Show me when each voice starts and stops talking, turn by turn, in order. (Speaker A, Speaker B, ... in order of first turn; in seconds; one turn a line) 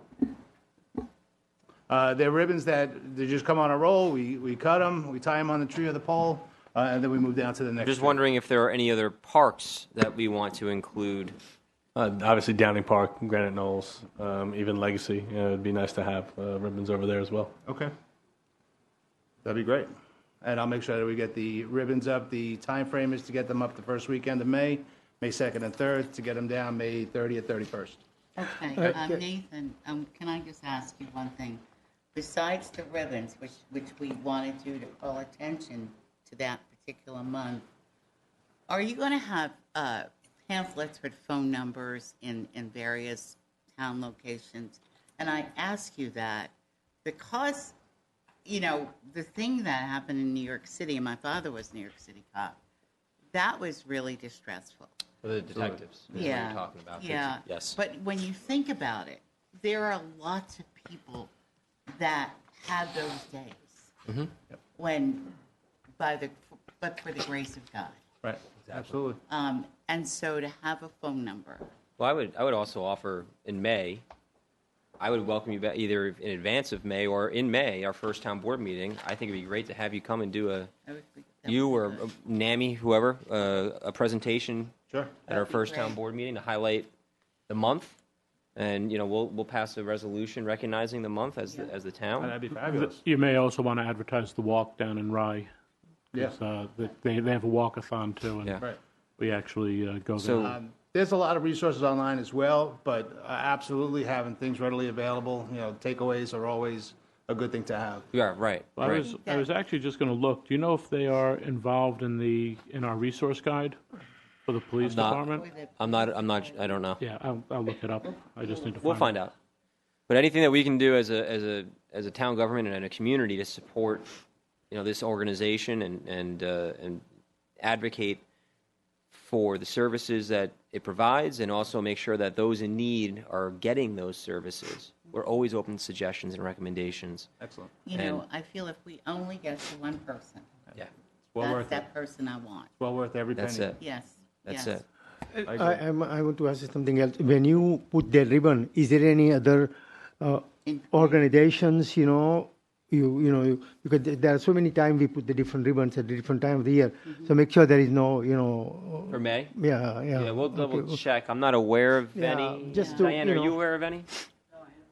Speaker A: 1.9-8.2
Speaker B: 7.8-11.3
Speaker C: 11.9-17.5
Speaker A: 17.6-17.9
Speaker A: 19.4-28.0
Speaker D: 28.4-31.6
Speaker E: 28.8-29.2
Speaker D: 32.1-37.7
Speaker D: 38.7-46.5
Speaker D: 47.0-47.7
Speaker D: 48.4-52.6
Speaker D: 53.3-54.9
Speaker B: 55.2-57.8
Speaker D: 56.1-61.3
Speaker D: 61.9-63.9
Speaker B: 64.0-64.3
Speaker D: 64.8-65.3
Speaker D: 66.0-68.0
Speaker A: 68.2-69.2
Speaker B: 68.6-68.9
Speaker D: 69.3-71.7
Speaker B: 72.0-74.0
Speaker B: 75.0-80.7
Speaker D: 80.8-82.0
Speaker B: 81.5-84.7
Speaker A: 84.9-85.2
Speaker D: 85.3-86.0
Speaker B: 85.3-86.9
Speaker B: 87.5-88.0
Speaker B: 88.5-92.3
Speaker D: 91.5-91.7
Speaker A: 92.2-93.0
Speaker F: 92.6-95.5
Speaker F: 96.1-98.6
Speaker F: 99.2-100.5
Speaker B: 100.2-100.5
Speaker A: 100.4-108.1
Speaker B: 108.1-109.1
Speaker F: 108.8-113.8
Speaker D: 108.8-109.6
Speaker F: 114.5-115.5
Speaker D: 114.8-116.9
Speaker B: 114.8-115.2
Speaker B: 115.8-117.0
Speaker F: 117.0-119.1
Speaker D: 118.1-118.8
Speaker B: 118.8-119.3
Speaker B: 120.1-124.1
Speaker B: 124.7-127.0
Speaker B: 127.6-128.2
Speaker B: 129.1-137.3
Speaker A: 137.4-137.7
Speaker D: 137.8-140.5
Speaker B: 137.9-138.2
Speaker A: 141.3-141.9
Speaker D: 141.4-142.7
Speaker A: 142.8-143.8
Speaker B: 143.4-143.8
Speaker D: 143.8-144.8
Speaker B: 144.4-144.8
Speaker E: 145.3-161.0
Speaker A: 145.5-145.8
Speaker D: 150.7-151.2
Speaker B: 159.1-159.5
Speaker B: 160.1-164.1
Speaker E: 162.1-163.6
Speaker D: 162.7-163.2